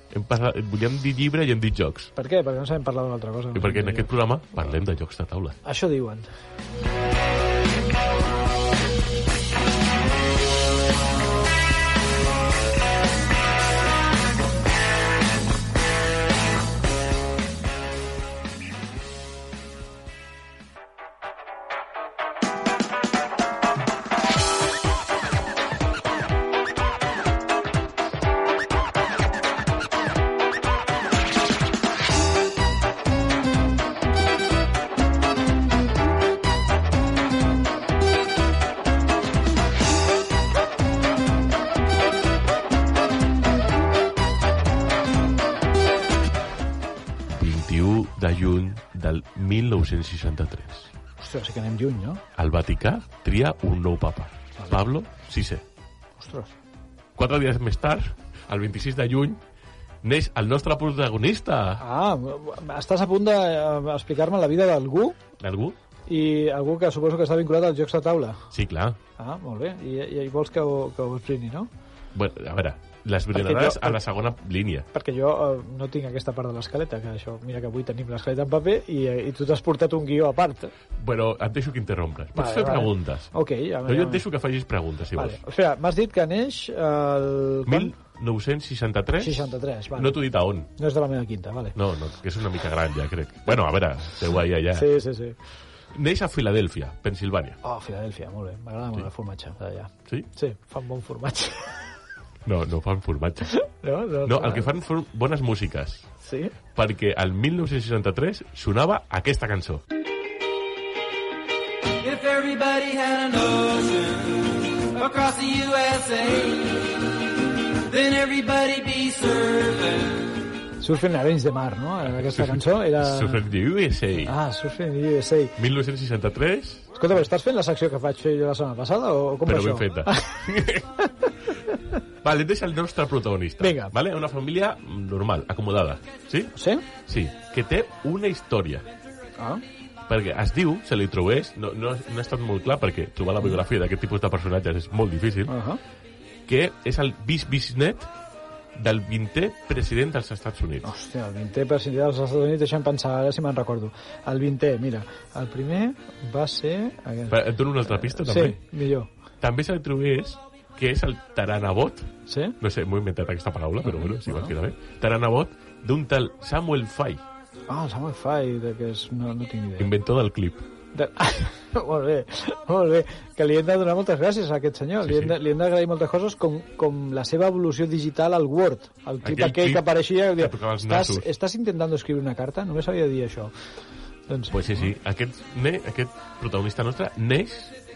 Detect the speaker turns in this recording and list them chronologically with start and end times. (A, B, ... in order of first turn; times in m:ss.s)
0:00.1-0:02.1 A
0:02.2-0:04.8 B
0:03.6-0:05.6 A
0:05.6-0:06.3 B
0:47.3-0:50.9 A
0:51.2-0:52.2 B
0:52.4-0:55.6 A
0:56.2-0:56.5 B
0:57.2-0:59.4 A
1:00.0-1:01.8 A
1:01.8-1:05.2 B
1:05.4-1:05.8 A
1:06.1-1:08.4 B
1:08.5-1:09.0 A
1:09.2-1:11.7 B
1:12.2-1:14.9 A
1:13.3-1:14.0 B
1:14.9-1:20.7 B
1:21.0-1:23.3 A
1:22.4-1:24.2 B
1:23.9-1:25.4 A
1:25.2-1:27.9 B
1:27.7-1:30.7 A
1:29.2-1:30.2 B
1:30.8-1:31.8 B
1:31.8-1:34.9 A
1:34.7-1:35.4 B
1:35.9-1:37.6 A
1:37.6-1:41.8 B
1:42.4-1:43.7 A
1:43.5-1:44.7 B
1:44.2-1:46.1 A
1:46.2-1:46.5 B
1:46.8-1:49.8 A
1:52.0-1:56.9 C
1:57.9-2:00.2 C
2:00.8-2:03.4 B
2:02.0-2:04.4 A
2:04.2-2:05.6 B
2:05.6-2:06.9 A
2:07.0-2:10.5 B
2:09.5-2:10.9 A
2:11.0-2:12.0 B
2:12.2-2:16.5 A
2:13.6-2:13.9 B
2:16.6-2:16.8 B
2:17.1-2:18.9 A
2:20.1-2:25.5 A
2:25.5-2:25.8 B
2:26.5-2:28.1 A
2:28.8-2:30.9 A
2:30.8-2:39.1 B
2:37.3-2:38.6 A
2:39.4-2:47.2 A
2:42.3-2:42.6 B
2:43.8-2:44.5 B
2:47.7-2:49.9 B
2:49.8-2:50.6 A
2:50.9-3:03.5 B
2:55.0-2:55.4 A
2:59.2-3:01.3 A
3:04.3-3:04.9 B
3:04.5-3:07.7 A